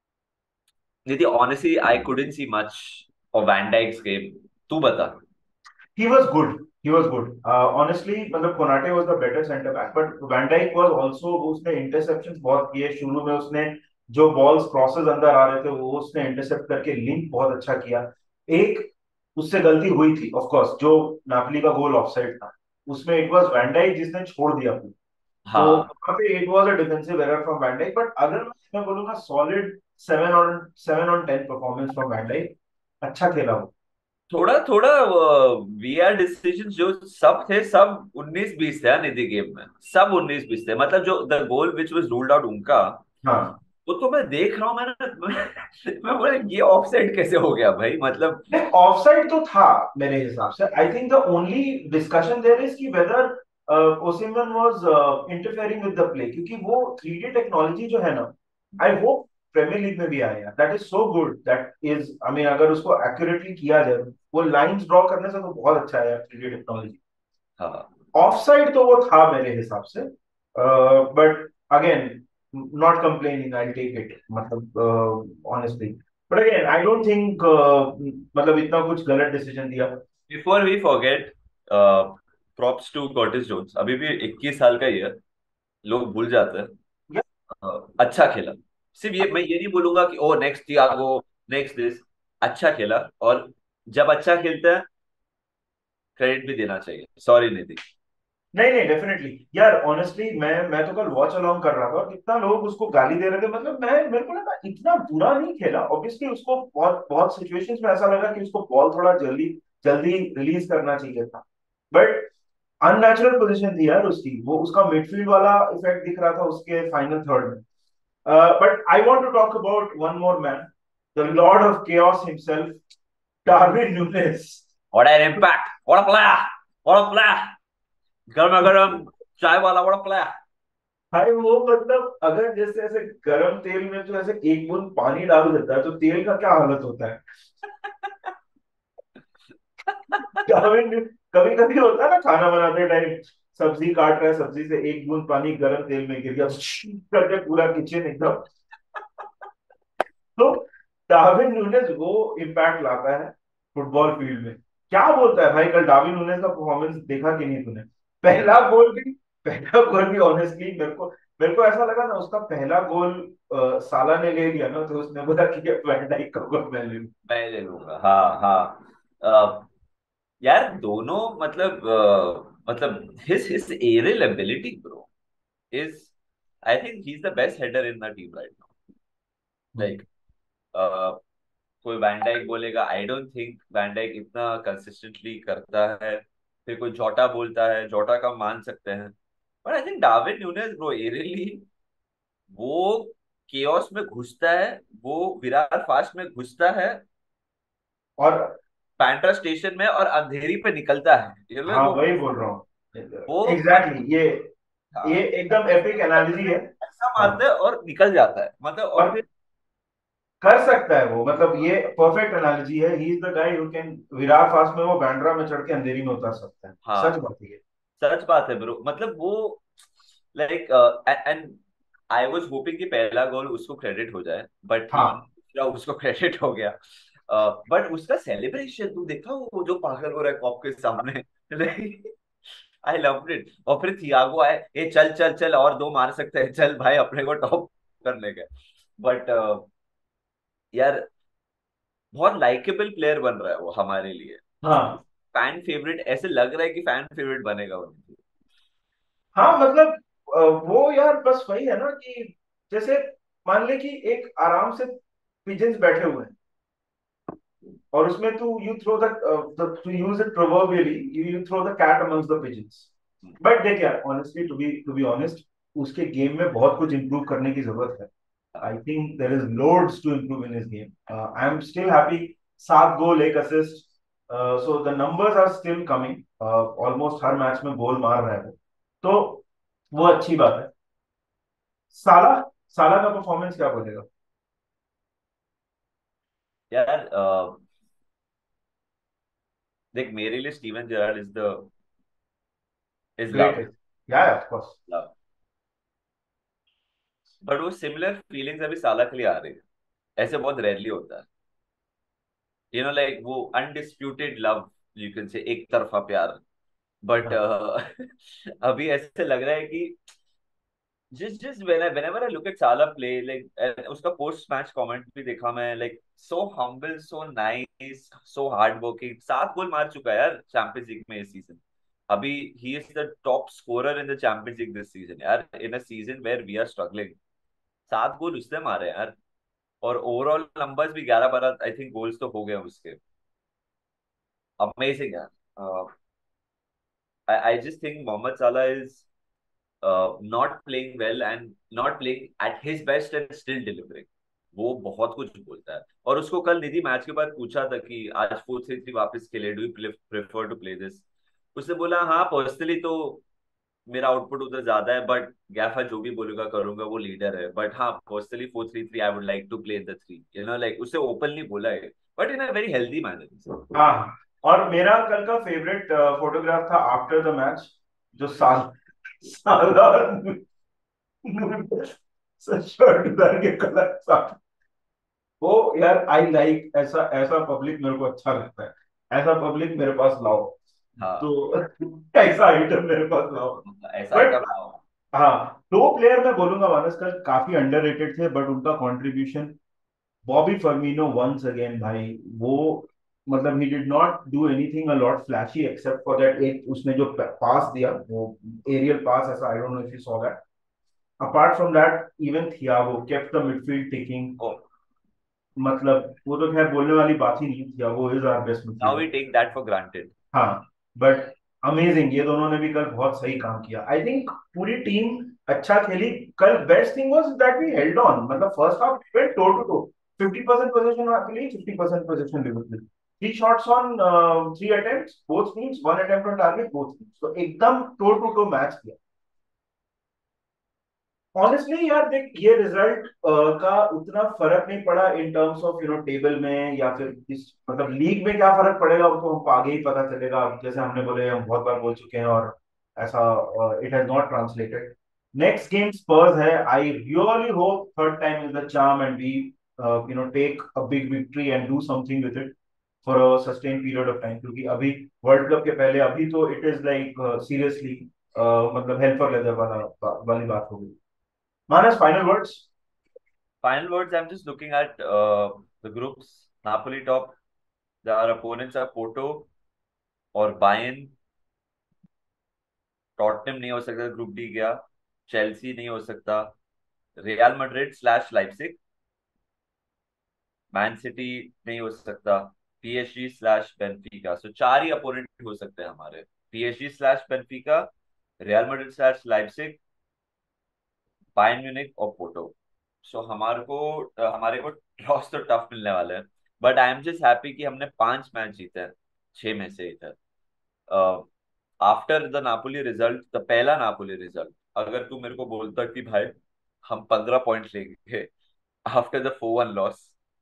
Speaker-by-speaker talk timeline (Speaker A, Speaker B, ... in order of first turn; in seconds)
Speaker A: 1.1-5.2, 25.5-25.9, 34.3-43.0, 43.9-48.6, 67.6-67.9, 80.3-85.2, 85.8-86.7, 87.6-94.9, 96.2-97.8, 124.9-127.6, 128.3-130.3, 139.9-140.4, 158.3-158.7, 167.3-169.7, 170.4-175.1, 175.7-176.1, 176.7-178.7, 179.8-180.1, 180.7-181.2, 181.8-191.7, 192.5-197.0, 199.0-202.0, 203.3-204.0, 204.9-209.3, 216.8-217.2, 218.0-219.7, 220.3-221.6, 222.1-232.0, 232.8-239.7, 240.7-241.0, 242.1-244.4, 245.3-248.2, 286.7-287.6, 289.9-291.7, 293.2-293.7, 297.4-299.6, 300.2-301.3, 302.7-306.4, 307.0-310.0, 311.1-327.2, 327.9-329.2, 329.8-333.0, 334.6-335.9, 337.3-339.1, 339.8-353.2, 353.9-363.6, 381.0-381.3, 383.6-384.8, 408.8-410.1, 463.6-467.4, 468.0-469.5, 470.4-471.1, 473.2-476.5, 477.2-478.8, 480.7-487.9, 488.4-489.8, 491.4-500.2, 500.9-501.3, 501.8-508.3, 508.9-510.1
Speaker B: 6.0-24.9, 25.6-33.7, 43.2-43.6, 48.5-67.0, 68.1-80.0, 98.5-112.3, 112.8-117.6, 118.2-122.8, 123.5-124.7, 131.1-137.2, 140.4-148.5, 150.4-167.1, 179.7-180.1, 198.2-198.6, 201.7-204.5, 205.0-207.4, 210.4-217.6, 224.9-225.2, 244.6-245.0, 249.3-254.9, 255.4-256.4, 257.9-268.1, 268.6-280.7, 281.9-284.1, 293.3-294.8, 363.7-370.4, 371.2-374.4, 375.4-380.6, 381.2-384.4, 385.1-389.6, 390.2-400.4, 401.2-404.4, 405.6-409.1, 410.3-429.0, 431.4-460.9, 461.7-462.7